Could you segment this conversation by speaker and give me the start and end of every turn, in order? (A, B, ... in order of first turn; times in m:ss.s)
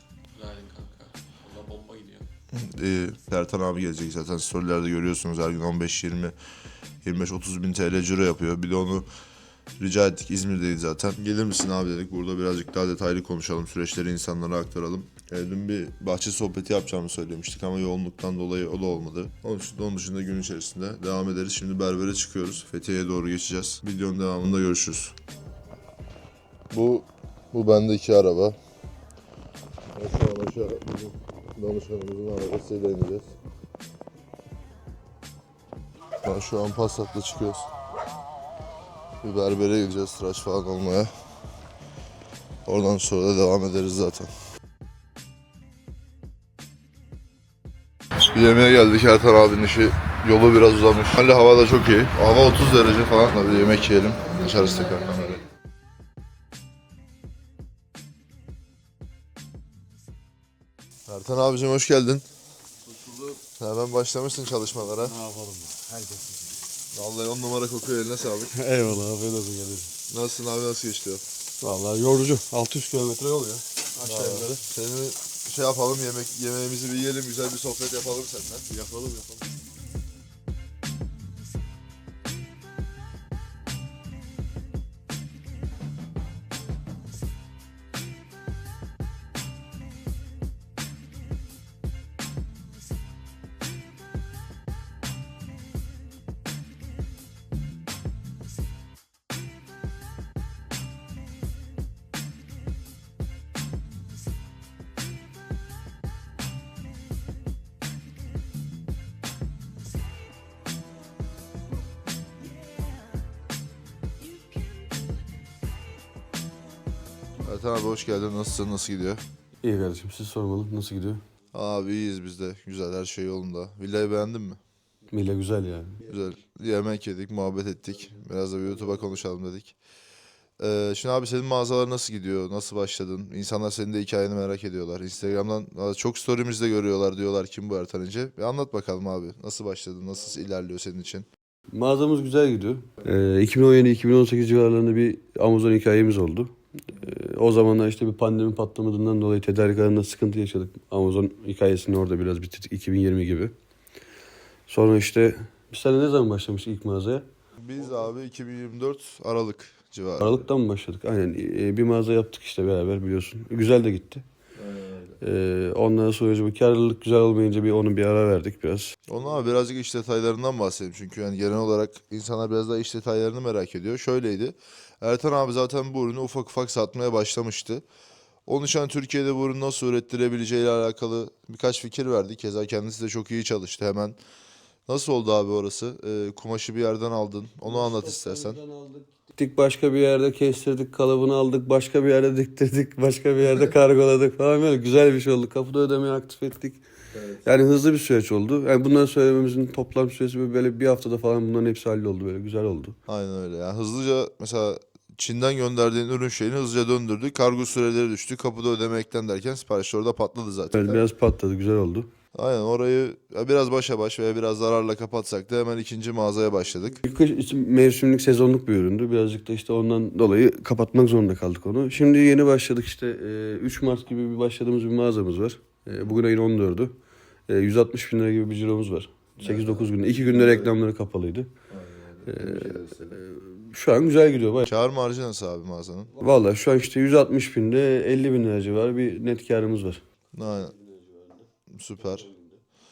0:00.3-0:02.3 A
0:02.5-0:06.3 B
0:07.0-0:09.1 B
0:09.8-0:25.2 B
0:26.7-0:28.6 B
0:29.9-0:33.3 B
0:36.2-0:37.7 B
0:39.2-0:41.1 B
0:42.6-0:44.3 B
0:48.3-0:55.4 B
1:01.1-1:02.2 B
1:02.8-1:03.4 C
1:03.6-1:05.1 B
1:05.0-1:06.6 C
1:06.9-1:08.5 B
1:08.5-1:09.9 C
1:10.1-1:11.2 B
1:11.6-1:14.6 C
1:14.0-1:18.7 B
1:18.7-1:19.6 C
1:57.4-1:59.2 B
1:59.6-2:01.2 C
2:01.5-2:04.6 B
2:05.1-2:06.1 C
2:06.0-2:09.7 B
2:08.6-2:09.1 C
2:10.6-2:21.2 B
2:21.7-2:33.5 C
2:34.7-2:37.3 C
2:37.6-2:40.4 B
2:40.2-2:44.2 C
2:44.6-2:45.2 B
2:45.2-2:49.0 C
2:49.1-2:57.8 B
2:58.5-3:04.2 B
3:04.9-3:08.6 B
3:07.6-3:16.8 C
3:17.1-3:17.4 B
3:17.4-3:23.0 C
3:23.1-3:31.0 B
3:30.7-3:32.1 C
3:32.3-3:37.0 B
3:37.0-3:46.9 C
3:45.9-3:46.2 B
3:47.5-3:51.5 C
3:49.4-3:50.7 B
3:51.7-3:53.2 B
3:52.3-3:54.7 C
3:54.7-3:56.1 B
3:56.1-4:02.6 C
4:00.3-4:00.7 B
4:01.7-4:02.3 B